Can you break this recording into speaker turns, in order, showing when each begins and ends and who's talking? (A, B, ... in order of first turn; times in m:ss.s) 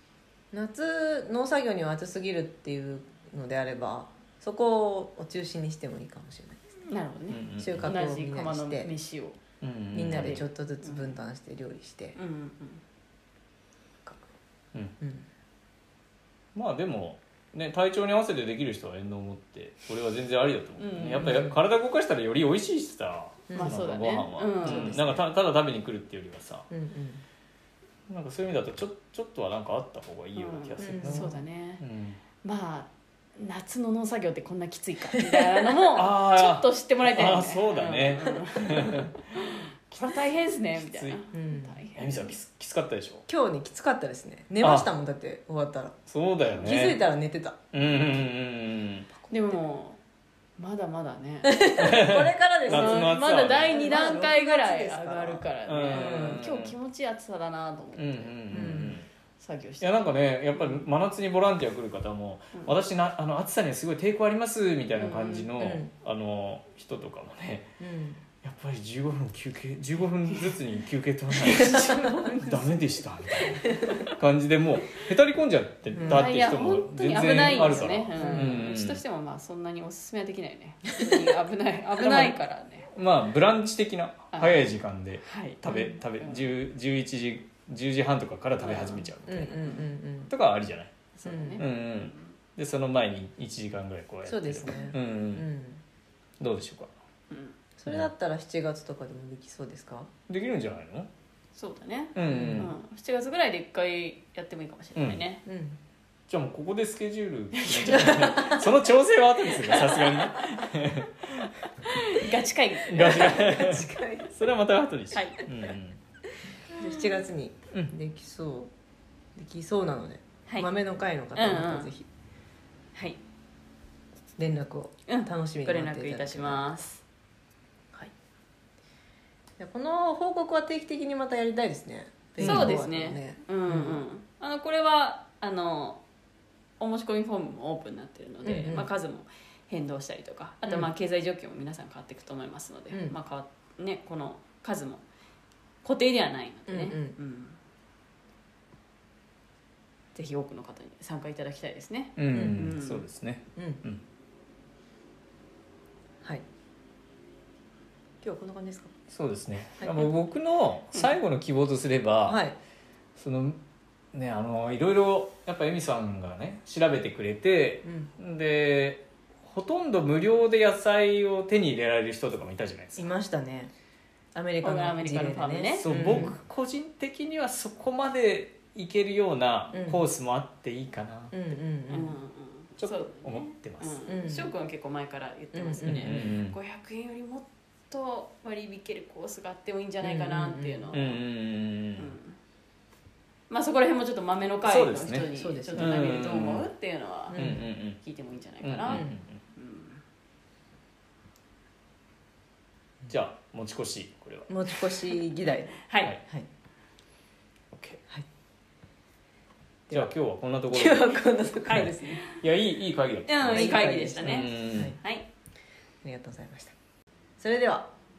0:00.5-0:06.6 A
0:06.9-0:09.4 B
0:07.3-0:07.9 C
0:07.6-0:08.9 A
0:09.6-0:10.5 C
0:09.9-0:12.2 A
0:10.0-0:11.1 B
0:12.1-0:12.8 B
0:15.0-0:15.3 A
0:16.5-0:26.7 C
0:20.8-0:21.3 B
0:21.1-0:21.6 A
0:23.5-0:23.8 A
0:23.5-0:24.9 B
0:24.6-0:25.2 A
0:26.7-0:27.2 A
0:28.1-0:32.2 C
0:30.4-0:31.8 B
0:30.8-0:31.4 A
0:32.4-0:42.3 B
0:35.9-0:39.2 C
0:40.8-0:41.2 C
0:41.3-0:41.8 A
0:41.9-0:43.2 C
0:43.3-0:46.0 A
0:44.6-0:44.9 C
0:46.1-0:47.0 C
0:46.5-0:47.6 A
0:47.7-0:49.1 C
0:49.2-0:49.6 A
0:49.3-0:50.0 B
0:50.6-0:51.7 B
0:51.4-0:56.4 A
0:51.7-0:53.8 C
0:52.7-0:58.8 B
0:55.6-0:56.8 C
0:58.0-0:59.1 C
0:58.5-0:59.0 A
0:59.4-1:00.8 B
0:59.8-1:07.7 C
1:05.0-1:05.8 B
1:05.6-1:05.9 A
1:07.8-1:08.2 A
1:08.4-1:19.0 C
1:10.3-1:10.6 B
1:11.3-1:12.8 B
1:13.4-1:13.9 B
1:15.9-1:16.3 A
1:16.0-1:22.9 B
1:17.4-1:18.7 A
1:22.0-1:22.4 C
1:22.9-1:35.5 C
1:24.3-1:26.5 B
1:28.6-1:29.1 B
1:29.2-1:30.3 A
1:31.2-1:32.2 B
1:31.2-1:31.6 A
1:34.2-1:35.8 A
1:36.4-1:36.9 C
1:37.8-1:40.1 A
1:40.3-1:41.1 C
1:41.5-1:45.4 B
1:42.1-1:42.7 C
1:42.2-1:42.7 A
1:45.0-1:45.2 C
1:45.4-1:45.8 A
1:46.3-1:51.9 C
1:47.5-1:48.6 B
1:47.9-1:48.6 A
1:49.5-1:50.6 B
1:51.8-1:53.4 B
1:52.8-1:56.0 C
1:53.0-1:54.3 A
1:55.1-1:55.4 B
1:56.7-1:58.7 A
1:59.3-2:02.1 A
2:01.3-2:01.9 B
2:02.9-2:03.2 B
2:04.4-2:06.6 A
2:05.1-2:07.0 B
2:09.6-2:14.0 A
2:12.4-2:16.0 B
2:12.4-2:12.8 C
2:16.8-2:25.0 B
2:18.4-2:18.9 A
2:22.9-2:23.2 A
2:25.8-2:27.6 B
2:26.7-2:27.2 A
2:30.1-2:33.0 B
2:32.2-2:34.0 C
2:32.3-2:32.7 A
2:38.2-2:38.9 A
2:39.1-2:42.4 C
2:39.8-2:40.1 A
2:42.2-2:42.6 A
2:43.2-2:43.6 C
2:44.1-2:53.1 C
2:47.8-2:48.1 A
2:52.9-2:53.7 A
2:54.3-2:56.3 A
2:54.6-2:56.3 B
2:55.8-3:01.3 C
2:59.7-3:00.0 A
3:01.3-3:02.2 A
3:01.9-3:11.2 B
3:02.8-3:04.1 C
3:04.1-3:04.5 A
3:05.5-3:06.3 A
3:05.8-3:06.6 C
3:10.0-3:11.0 A
3:10.9-3:12.1 C
3:12.0-3:12.4 B
3:13.5-3:17.4 B
3:14.6-3:16.7 C
3:15.3-3:16.5 A
3:17.3-3:17.6 A
3:17.3-3:18.0 C
3:18.0-3:20.0 B
3:18.6-3:19.4 C
3:18.9-3:19.2 A
3:23.1-3:24.5 C
3:24.5-3:26.5 A
3:25.8-3:26.1 B
3:27.7-3:28.0 C
3:29.9-3:34.9 C
3:30.7-3:32.2 A
3:31.6-3:32.4 B
3:33.3-3:35.3 B
3:33.4-3:35.0 A
3:36.0-3:36.8 A
3:37.4-3:37.9 A